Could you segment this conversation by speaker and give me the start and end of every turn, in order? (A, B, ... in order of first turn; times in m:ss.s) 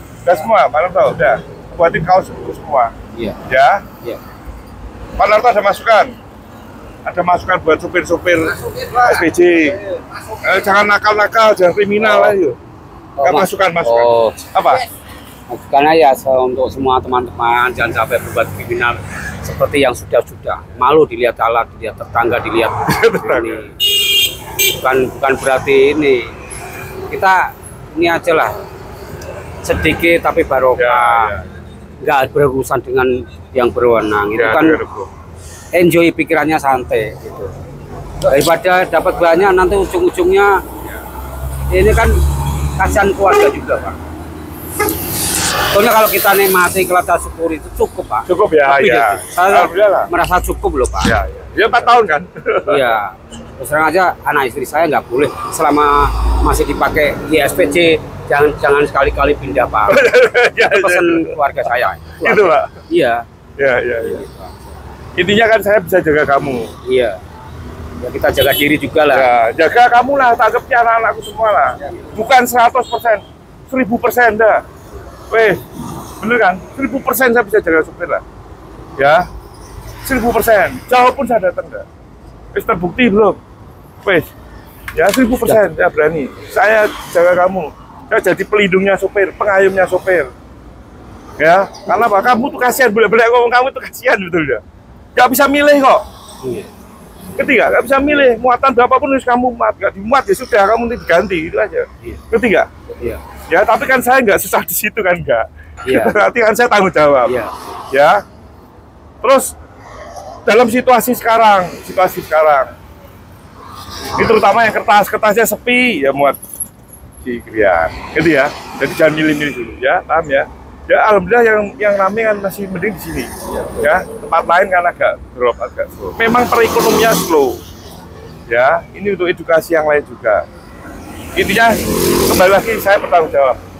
0:00.2-0:02.9 A
0:03.1-0:03.4 B
0:03.4-0:03.8 A
0:05.2-0:06.1 A
0:07.0-0:09.8 A
0:10.4-0:12.6 A
0:12.0-0:12.4 B
0:13.2-0:14.6 B
0:13.2-0:14.8 A
0:15.5-0:23.8 B
0:22.9-0:23.6 A
0:24.6-0:26.3 B
0:27.1-0:28.5 B
0:29.6-0:31.3 B
0:30.8-0:31.4 A
0:32.0-0:34.8 B
0:34.3-0:35.1 A
0:35.7-0:37.5 B
0:38.2-0:40.6 B
0:41.7-0:42.2 B
0:42.8-0:44.0 B
0:45.7-0:51.1 B
0:48.2-0:50.1 A
0:51.0-0:52.9 A
0:52.6-1:03.2 B
0:59.9-1:01.4 A
1:02.2-1:02.7 A
1:03.6-1:04.2 A
1:04.0-1:04.4 B
1:05.2-1:06.7 A
1:06.8-1:07.2 B
1:08.0-1:09.3 B
1:09.1-1:14.6 A
1:15.3-1:15.6 A
1:16.2-1:18.2 A
1:19.0-1:19.3 A
1:20.0-1:21.8 A
1:22.5-1:23.4 A
1:24.0-1:24.3 A
1:24.9-1:30.3 A
1:31.4-1:34.6 A
1:35.1-1:36.0 A
1:36.4-1:36.7 B
1:37.4-1:42.7 A
1:43.5-1:47.3 A
1:45.8-1:46.2 B
1:47.2-1:47.5 B
1:47.9-1:48.2 A
1:49.2-1:49.5 A
1:50.4-1:52.7 A
1:54.1-1:56.4 A
1:57.2-2:07.6 A
2:08.5-2:10.4 A
2:11.4-2:13.6 A